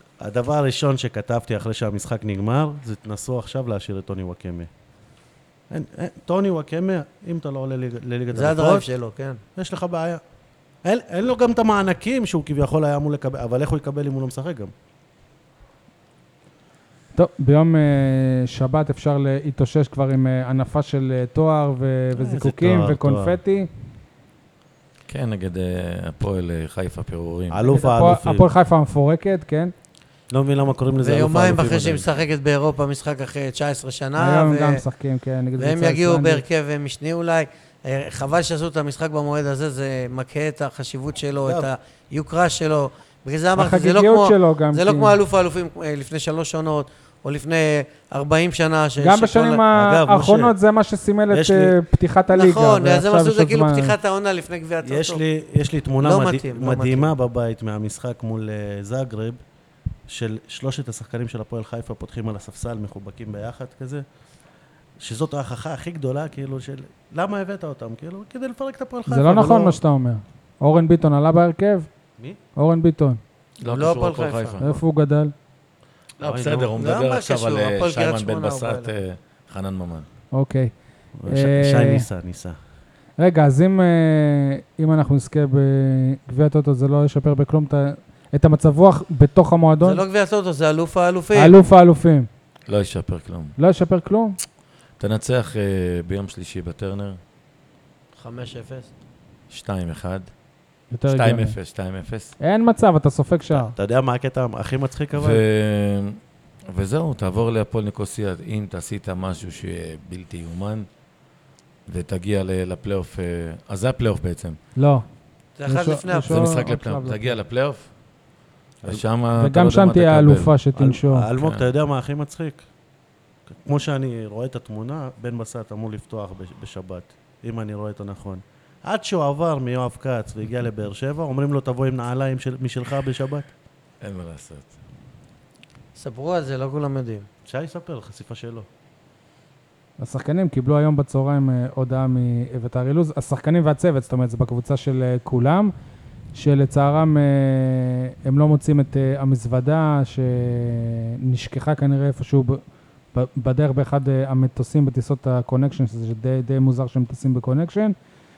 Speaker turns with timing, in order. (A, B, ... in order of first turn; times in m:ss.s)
0:00.2-0:04.7 A
0:05.7-0:08.8 A
0:08.3-0:09.4 B
0:09.6-0:10.2 A
0:10.8-0:14.7 A
0:17.1-0:23.7 C
0:22.1-0:23.4 A
0:25.1-0:27.6 D
0:27.5-0:28.5 A
0:27.6-0:29.7 C
0:30.3-0:32.1 A
0:31.0-0:34.8 B
0:34.2-0:36.4 C
0:35.6-0:49.6 B
0:41.4-0:41.7 A
0:43.5-0:45.2 C
0:49.0-0:53.9 C
0:49.7-0:50.5 A
0:51.3-0:51.8 A
0:52.3-0:55.2 B
0:54.8-0:59.4 A
0:56.0-0:57.1 B
1:00.1-1:04.0 A
1:05.0-1:09.8 A
1:09.1-1:11.9 C
1:12.6-1:13.2 C
1:13.6-1:14.6 B
1:13.6-1:14.8 D
1:14.6-1:15.3 C
1:16.2-1:20.0 D
1:16.2-1:16.8 A
1:16.8-1:18.9 B
1:20.3-1:20.7 C
1:21.2-1:22.6 A
1:21.2-1:22.0 C
1:23.2-1:30.0 C
1:29.8-1:31.6 B
1:31.3-1:32.3 C
1:32.7-1:33.6 D
1:33.6-1:34.4 C
1:35.0-1:37.2 D
1:38.2-1:38.9 B
1:39.5-1:40.3 D
1:40.9-1:41.6 C
1:41.1-1:42.4 D
1:42.4-1:43.7 C
1:43.5-1:45.4 A
1:45.2-1:46.2 D
1:46.7-1:50.9 D
1:51.8-1:54.6 D
1:54.8-1:55.0 C
1:55.6-1:56.5 B
1:55.6-1:57.3 C
1:56.3-1:57.8 D
1:58.8-2:00.5 D
1:59.4-2:01.2 C
2:00.8-2:02.6 A
2:01.4-2:01.7 D
2:03.5-2:13.5 A
2:14.0-2:14.7 D
2:16.0-2:17.3 B
2:17.5-2:18.7 A
2:20.0-2:25.7 C
2:26.3-2:32.6 C
2:33.1-2:38.0 C